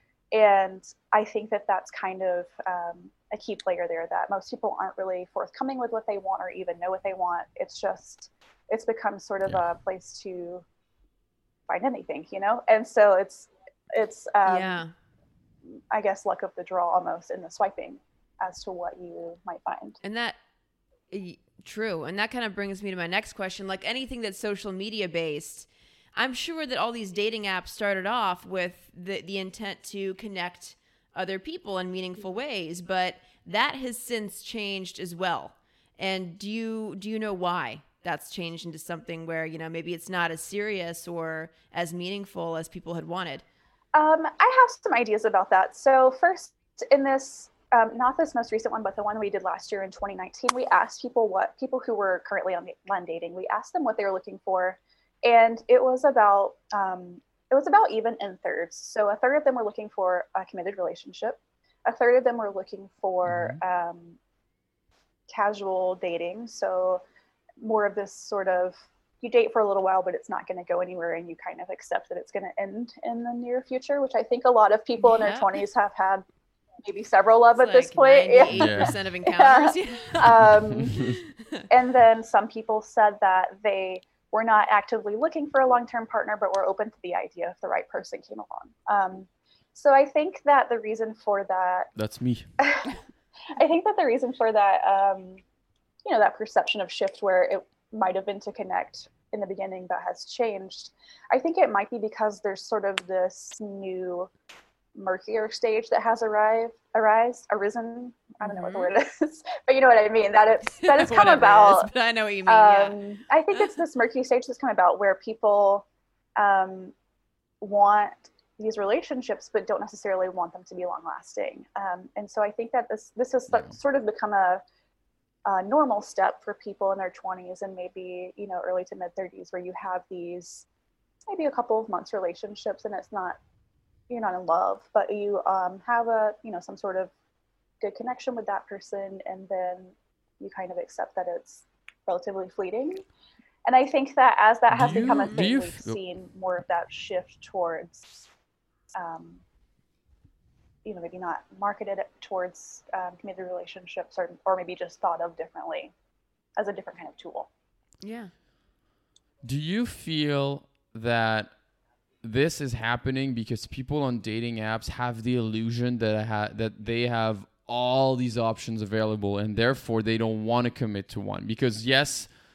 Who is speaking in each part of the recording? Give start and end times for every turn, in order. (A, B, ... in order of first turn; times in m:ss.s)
0:00.3-0:10.6 A
0:11.7-0:14.8 A
0:14.4-0:14.9 B
0:15.9-0:20.0 A
0:20.0-0:20.4 B
0:21.1-0:43.4 B
0:43.9-1:04.2 A
1:03.2-1:03.6 C
1:05.3-1:07.0 A
1:07.6-1:16.2 A
1:15.0-1:15.5 B
1:16.8-1:21.1 A
1:17.6-1:21.6 B
1:18.6-1:18.9 C
1:20.3-1:21.2 C
1:21.7-1:31.9 A
1:32.0-1:32.5 C
1:32.6-1:33.0 A
1:33.6-1:35.4 A
1:36.0-1:44.3 A
1:44.9-1:51.9 A
1:48.4-1:48.9 B
1:50.7-1:53.0 B
1:52.5-1:55.8 A
1:56.4-1:56.9 A
1:57.6-2:04.6 A
2:03.5-2:03.8 C
2:05.4-2:10.6 A
2:11.3-2:13.4 A
2:14.1-2:17.1 A
2:17.8-2:23.0 A
2:23.6-2:28.2 A
2:24.7-2:26.0 C
2:25.0-2:25.4 B
2:28.9-2:29.4 A
2:30.8-2:35.9 A
2:36.6-2:37.5 A
2:38.0-2:38.3 B
2:39.4-2:41.5 C
2:42.2-2:52.3 C